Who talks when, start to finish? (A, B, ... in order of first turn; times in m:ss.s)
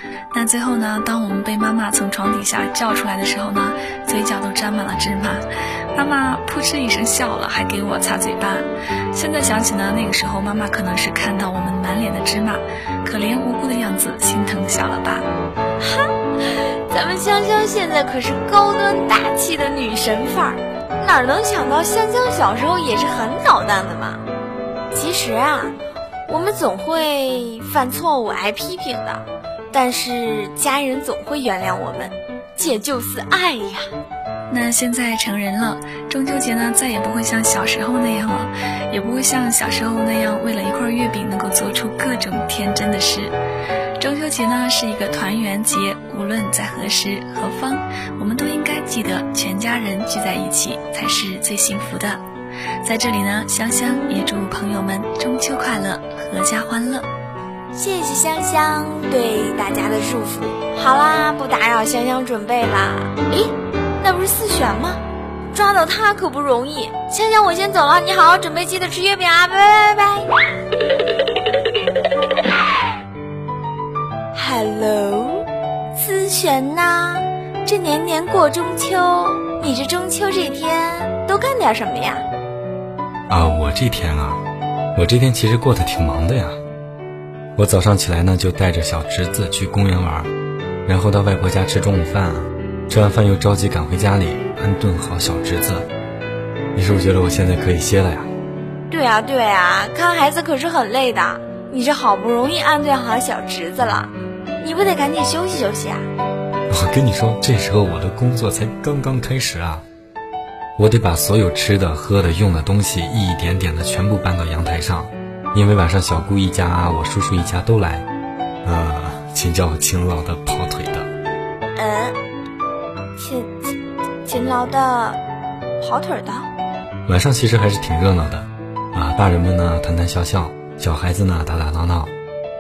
0:00.3-0:05.4 A
0:05.9-0:15.3 A
0:15.8-0:24.2 B
0:24.9-0:25.8 B
0:26.3-0:33.9 B
0:34.5-0:43.3 A
0:44.0-0:52.2 A
0:52.8-0:57.1 A
0:57.7-1:05.0 B
1:05.5-1:10.3 B
1:14.3-1:22.3 B
1:23.3-1:24.4 C
1:25.0-1:26.6 C
1:27.6-1:30.3 C
1:30.9-1:35.9 C
1:36.8-1:38.3 C
1:38.9-1:46.1 B
1:46.7-1:49.8 C
1:50.8-1:58.1 C
1:58.6-2:01.1 C
2:01.8-2:02.2 B
2:03.2-2:03.7 B
2:04.2-2:05.2 B
2:05.8-2:06.5 B
2:07.1-2:12.1 C